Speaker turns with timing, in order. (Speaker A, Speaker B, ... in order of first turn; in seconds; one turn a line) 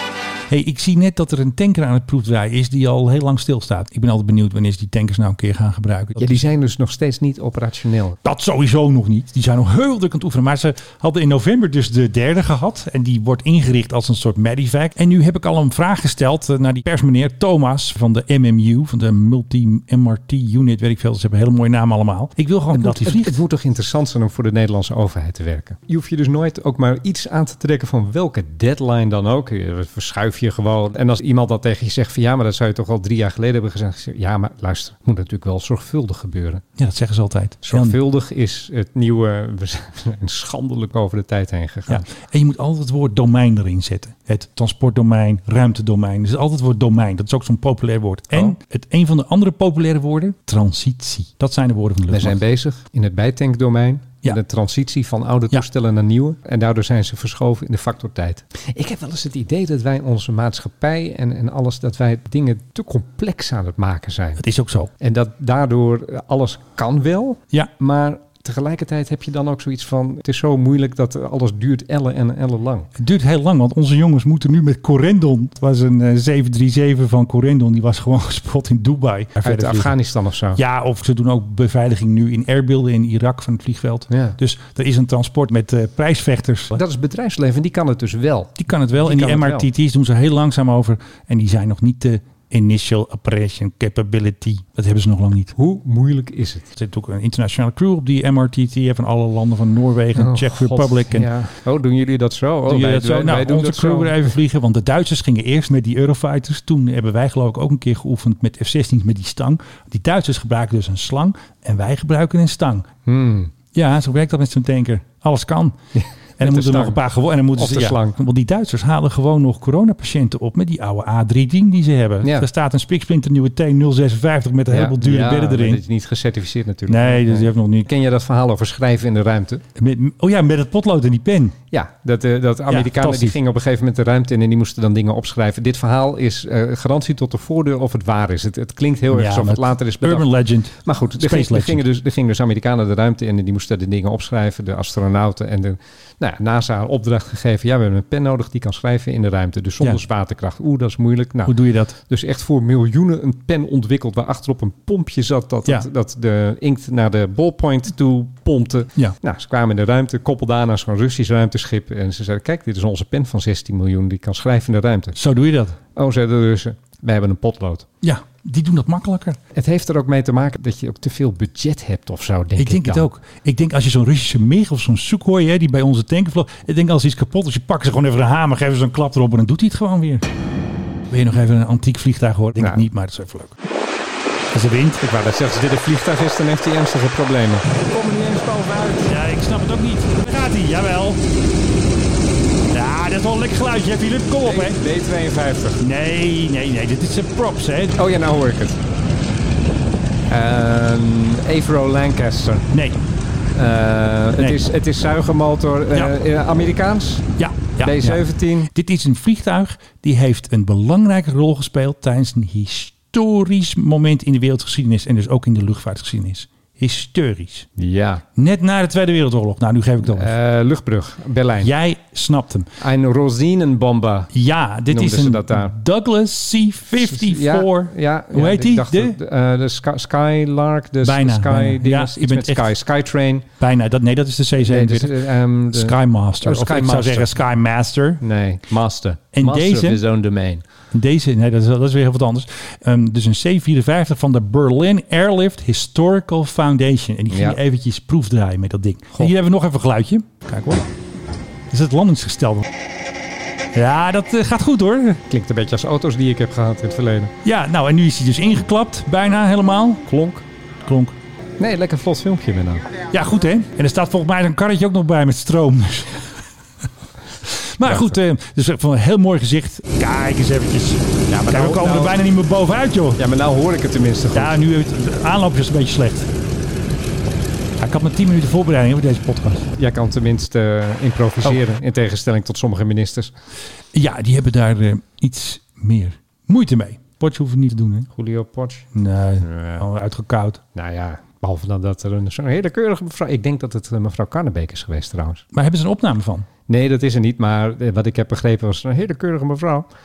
Speaker A: 0.5-6.4
Speaker B: 6.2-8.2
Speaker A: 8.2-23.4
Speaker B: 22.7-36.6
Speaker A: 36.8-38.0
Speaker B: 37.6-42.1
Speaker A: 41.9-52.4
Speaker B: 52.1-64.4
Speaker A: 64.4-64.9
Speaker B: 65.0-72.9
Speaker A: 73.0-80.0
Speaker B: 79.4-80.6
Speaker A: 80.5-86.7
Speaker B: 84.1-84.4
Speaker B: 86.7-89.7
Speaker A: 88.6-95.5
Speaker B: 95.5-96.7
Speaker A: 96.8-101.3
Speaker B: 100.2-104.3
Speaker A: 102.7-112.9
Speaker B: 113.1-113.5
Speaker A: 113.7-115.8
Speaker B: 116.0-118.2
Speaker A: 116.4-125.8
Speaker B: 122.2-122.5
Speaker B: 124.7-129.6
Speaker A: 126.9-127.9
Speaker A: 129.8-131.6
Speaker B: 131.7-165.2
Speaker A: 132.7-133.4
Speaker A: 139.1-141.8
Speaker A: 151.4-151.9
Speaker A: 165.2-165.8
Speaker B: 165.9-167.9
Speaker A: 168.0-169.4
Speaker B: 169.5-173.1
Speaker A: 172.6-180.2
Speaker A: 181.1-183.6
Speaker B: 182.6-182.8
Speaker A: 184.5-185.0
Speaker B: 185.0-189.1
Speaker A: 189.0-191.2
Speaker A: 192.7-194.8
Speaker B: 194.4-195.8
Speaker A: 195.8-198.0
Speaker B: 198.0-198.8
Speaker B: 200.3-202.7
Speaker A: 202.7-203.0
Speaker B: 203.6-208.7
Speaker A: 207.4-217.7
Speaker B: 217.8-218.2
Speaker A: 218.4-220.3
Speaker B: 220.1-221.7
Speaker A: 221.6-222.7
Speaker B: 222.8-224.3
Speaker A: 224.3-229.2
Speaker B: 224.9-225.7
Speaker B: 227.0-233.5
Speaker A: 231.0-232.7
Speaker A: 233.6-238.2
Speaker B: 234.6-237.3
Speaker B: 238.2-240.6
Speaker A: 239.3-240.0
Speaker A: 240.9-250.8
Speaker B: 247.3-247.6
Speaker A: 251.7-252.7
Speaker A: 253.7-255.2
Speaker B: 255.3-257.3
Speaker A: 257.4-260.1
Speaker B: 260.1-260.4
Speaker A: 260.9-261.2
Speaker B: 261.6-262.9
Speaker A: 263.1-266.3
Speaker A: 267.4-273.2
Speaker B: 267.9-268.1
Speaker B: 271.3-272.2
Speaker B: 273.2-274.6
Speaker A: 274.3-276.3
Speaker A: 277.8-279.7
Speaker B: 279.8-283.3
Speaker A: 283.9-288.1
Speaker B: 288.1-288.9
Speaker A: 288.9-290.6
Speaker B: 289.4-289.9
Speaker B: 290.7-295.4
Speaker A: 295.5-296.5
Speaker B: 296.7-299.9